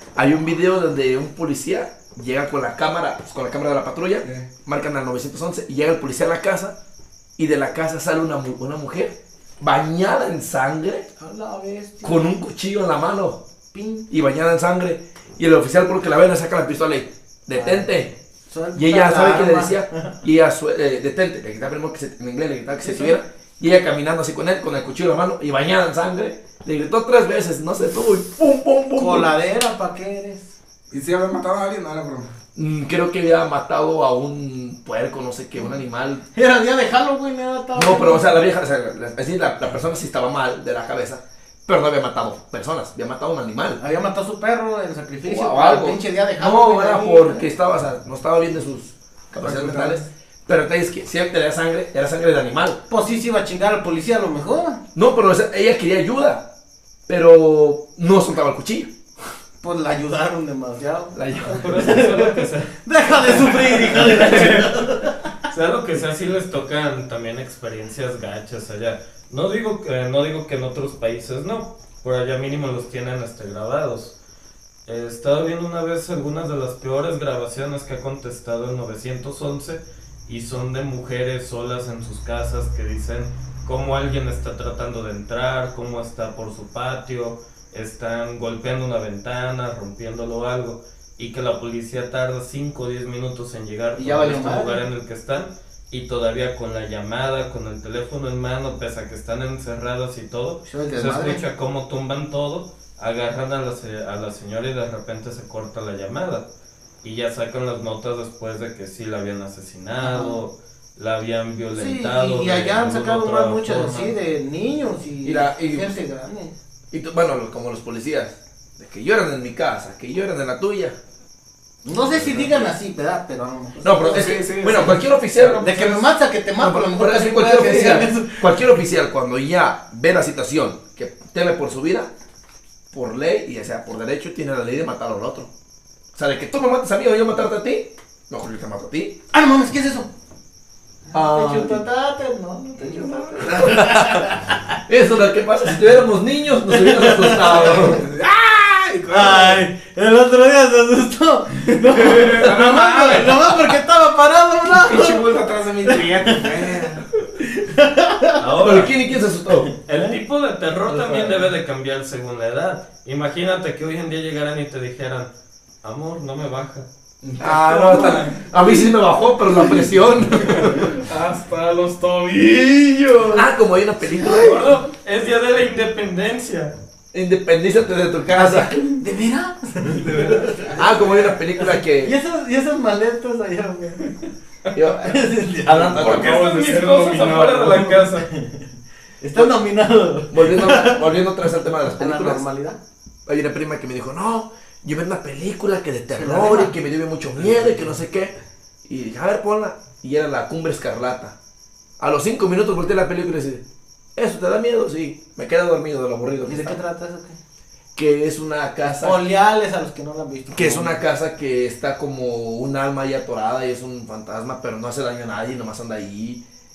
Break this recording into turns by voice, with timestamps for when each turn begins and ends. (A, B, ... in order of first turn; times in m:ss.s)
0:00.2-0:06.8 A
0:07.4-0:11.1 A
0:11.2-0:12.3 B
0:12.0-0:13.4 A
0:13.7-0:14.1 B
0:14.1-0:18.2 A
0:17.5-0:18.0 B
0:18.5-0:20.2 B
0:18.8-0:29.3 A
0:22.8-0:23.2 B
0:29.0-0:30.5 B
0:30.9-0:32.3 C
0:32.6-0:36.2 A
0:36.3-0:38.3 B
0:37.8-0:43.8 A
0:43.8-0:47.5 B
0:45.2-0:52.8 A
0:49.4-0:50.1 C
0:52.9-0:54.8 B
0:55.0-0:56.5 A
0:57.1-0:58.9 A
0:59.6-1:05.3 B
1:01.1-1:01.9 A
1:01.5-1:02.7 D
1:03.2-1:04.9 D
1:05.5-1:14.2 D
1:14.9-1:46.5 D
1:34.0-1:34.8 B
1:40.6-1:41.4 B
1:47.0-1:54.1 D
1:50.0-1:50.4 B
1:51.8-1:56.6 B
1:55.2-1:56.0 A
1:56.9-2:01.0 A
2:01.8-2:04.3 B
2:02.1-2:02.7 A
2:03.8-2:05.9 A
2:04.0-2:06.0 C
2:05.6-2:08.6 B
2:06.6-2:12.1 A
2:12.9-2:15.5 A
2:16.1-2:19.2 A
2:19.3-2:20.1 B
2:21.1-2:24.8 B
2:21.1-2:21.9 A
2:22.9-2:23.5 C
2:23.4-2:24.3 A
2:24.9-2:28.0 A
2:26.7-2:28.0 B
2:27.7-2:29.7 C
2:29.1-2:38.8 B
2:32.1-2:33.4 C
2:34.7-2:37.0 C
2:38.4-2:39.0 D
2:38.6-2:39.7 A
2:39.8-2:40.2 B
2:39.8-2:45.3 D
2:40.9-2:41.5 C
2:45.8-2:46.9 D
2:47.2-2:48.4 C
2:47.4-2:51.0 A
2:50.8-2:53.5 E
2:53.3-2:54.7 A
2:54.2-2:54.8 E
2:54.6-2:56.7 D
2:57.1-2:59.0 A
2:58.3-3:04.2 B
2:59.9-3:00.7 C
3:00.8-3:02.1 A
3:04.7-3:06.5 A
3:04.8-3:06.1 B
3:06.0-3:08.3 D
3:06.0-3:08.0 E
3:07.7-3:11.2 B
3:10.3-3:12.4 A
3:11.8-3:12.8 B
3:13.3-3:18.3 A
3:16.1-3:16.8 B
3:18.9-3:21.4 A
3:22.0-3:23.6 A
3:24.2-3:26.8 A
3:26.4-3:27.4 B
3:28.0-3:29.2 A
3:28.8-3:31.0 B
3:30.5-3:36.4 A